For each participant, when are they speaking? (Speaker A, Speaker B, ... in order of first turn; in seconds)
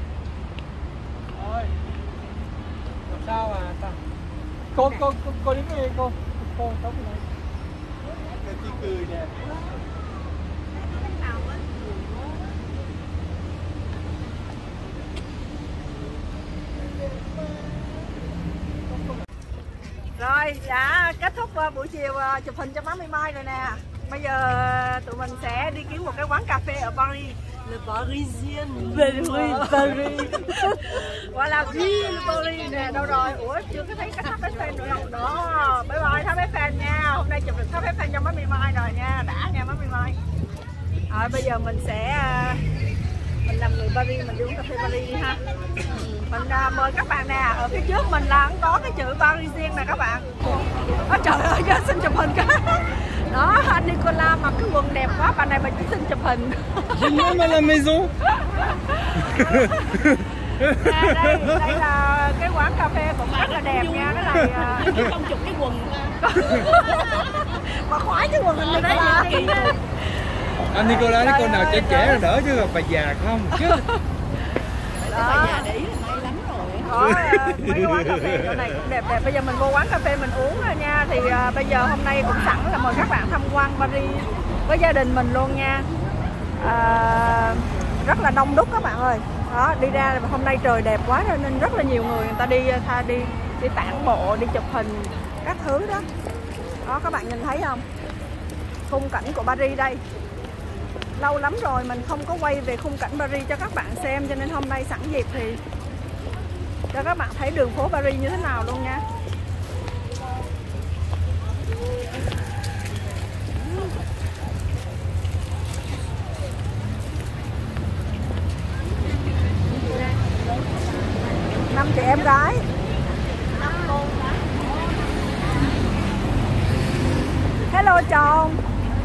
Speaker A: 1.4-1.7, 3.1-4.0, 4.7-7.2, 8.4-9.3, 56.9-58.1, 59.3-61.7, 70.7-73.8, 77.3-77.6
Speaker B: 4.7-5.1, 10.8-12.4, 27.9-30.3, 31.8-32.8, 45.9-46.2, 63.3-67.2, 68.6-69.8, 75.0-76.9, 119.7-122.3, 123.4-125.8
Speaker C: 20.1-40.2, 41.1-42.6, 43.4-45.4, 46.1-57.4, 58.3-60.0, 60.6-65.1, 66.2-72.2, 73.5-74.0, 75.1-75.7, 76.8-85.9, 86.6-96.1, 96.8-97.8, 98.9-100.0, 101.2-105.6, 106.9-109.0, 121.7-122.7, 127.7-128.6